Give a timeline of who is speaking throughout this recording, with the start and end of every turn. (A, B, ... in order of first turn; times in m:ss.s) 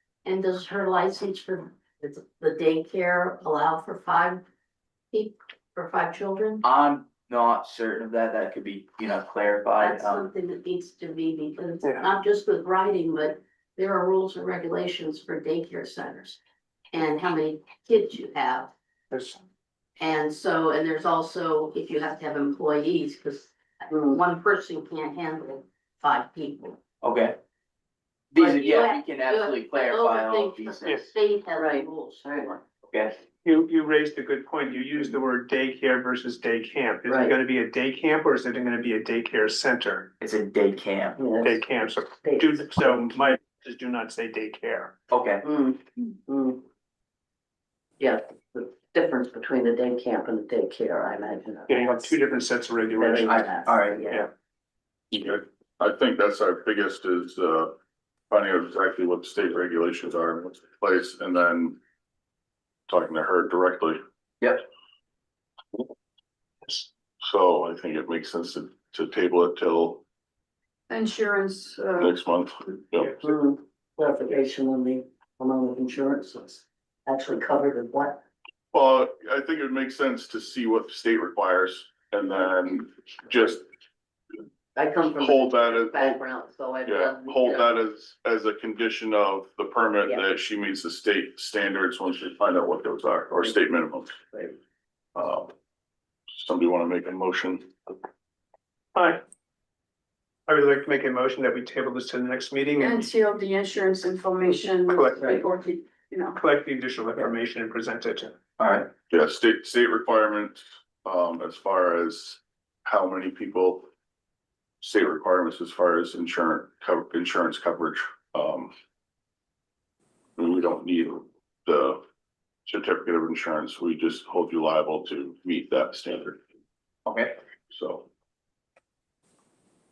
0:00.2-0:04.4 A
0:05.1-0:06.6 A
0:06.6-0:10.3 B
0:09.8-0:16.4 A
0:11.8-0:12.1 C
0:16.9-0:18.7 A
0:19.1-0:19.4 C
0:20.0-0:26.8 A
0:23.9-0:24.2 D
0:27.0-0:27.4 B
0:28.3-0:31.1 B
0:28.4-0:32.6 A
0:31.6-0:32.5 D
0:32.9-0:33.2 B
0:33.4-0:40.1 C
0:37.1-0:37.3 D
0:40.2-0:41.2 B
0:41.2-0:41.6 D
0:41.4-0:45.0 C
0:42.2-0:43.0 D
0:45.1-0:45.4 B
0:45.4-0:46.6 D
0:48.0-0:52.1 D
0:51.7-0:53.6 C
0:53.0-0:54.2 D
0:53.3-0:54.0 B
0:55.1-0:57.8 E
0:58.3-1:01.8 E
1:02.9-1:04.0 E
1:07.2-1:10.0 E
1:10.9-1:12.1 F
1:12.0-1:13.2 E
1:13.2-1:18.2 D
1:18.7-1:23.6 E
1:24.8-1:27.6 D
1:25.2-1:26.2 E
1:26.9-1:34.2 E
1:35.2-1:35.5 E
1:36.4-1:37.7 E
1:39.0-1:39.2 C
1:40.5-1:43.1 C
1:42.8-1:46.4 F
1:44.9-1:45.4 C
1:46.4-1:48.4 C
1:48.6-1:48.9 B
1:49.1-1:53.9 E
1:54.8-1:58.7 E
2:00.4-2:02.0 E
2:02.7-2:06.4 E
2:07.1-2:07.4 B
2:07.7-2:08.1 E